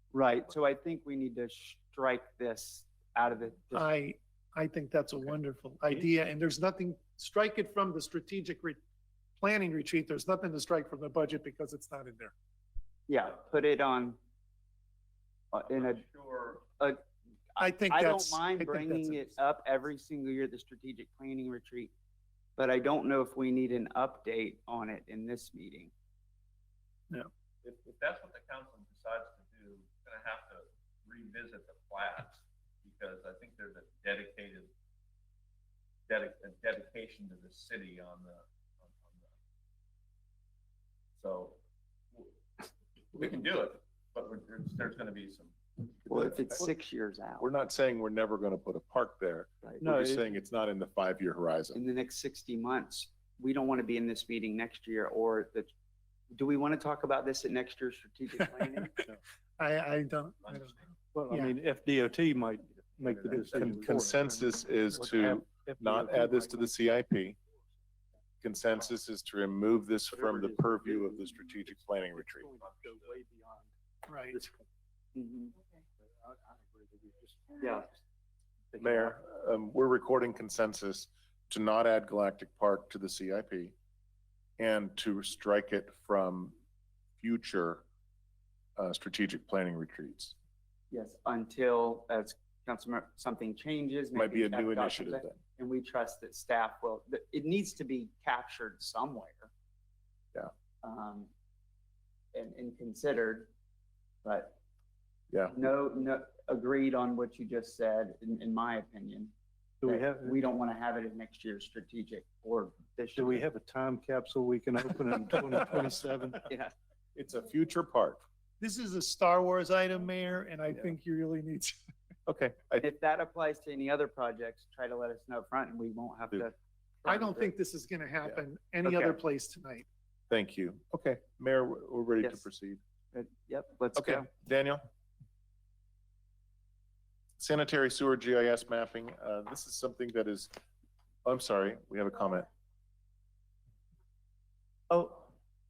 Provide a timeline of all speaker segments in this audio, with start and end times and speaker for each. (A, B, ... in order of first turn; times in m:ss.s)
0:00.1-0:03.9 A
0:03.7-0:08.8 B
0:09.4-0:12.3 B
0:13.1-0:14.2 A
0:15.5-0:16.0 A
0:15.7-0:16.6 C
0:16.6-0:17.0 A
0:17.6-0:19.3 B
0:17.6-0:21.9 A
0:22.6-0:25.9 A
0:27.6-0:34.7 C
0:36.1-0:39.3 C
0:41.2-0:41.6 C
0:43.1-0:45.6 C
0:46.1-0:47.5 A
0:46.1-0:46.6 D
0:47.4-0:51.8 D
0:49.6-0:49.9 A
0:49.8-0:50.3 E
0:51.7-0:55.7 A
0:56.3-0:58.9 A
0:59.6-1:01.5 B
1:00.4-1:00.8 C
1:01.1-1:06.7 E
1:02.9-1:03.7 C
1:03.5-1:07.4 D
1:08.4-1:12.5 D
1:10.1-1:11.4 E
1:12.2-1:13.7 E
1:14.1-1:14.4 B
1:15.1-1:15.5 A
1:16.2-1:17.6 E
1:17.6-1:17.9 A
1:18.8-1:23.7 D
1:24.6-1:26.6 D
1:27.2-1:27.8 D
1:28.8-1:30.3 D
1:30.9-1:39.5 A
1:34.1-1:35.4 D
1:40.8-1:41.3 A
1:42.3-1:43.5 A
1:44.2-1:44.6 A
1:45.5-1:49.3 A
1:49.8-1:50.4 E
1:49.8-1:53.4 A
1:53.2-1:56.4 E
1:56.5-1:56.7 A
1:57.1-1:58.2 D
1:58.6-2:01.8 B
2:02.2-2:02.8 D
2:02.8-2:07.5 A
2:07.0-2:09.8 B
2:08.8-2:09.2 A
2:10.3-2:12.8 D
2:13.1-2:14.3 A
2:14.0-2:14.9 D
2:17.4-2:20.5 D
2:21.2-2:22.5 D
2:24.9-2:25.3 A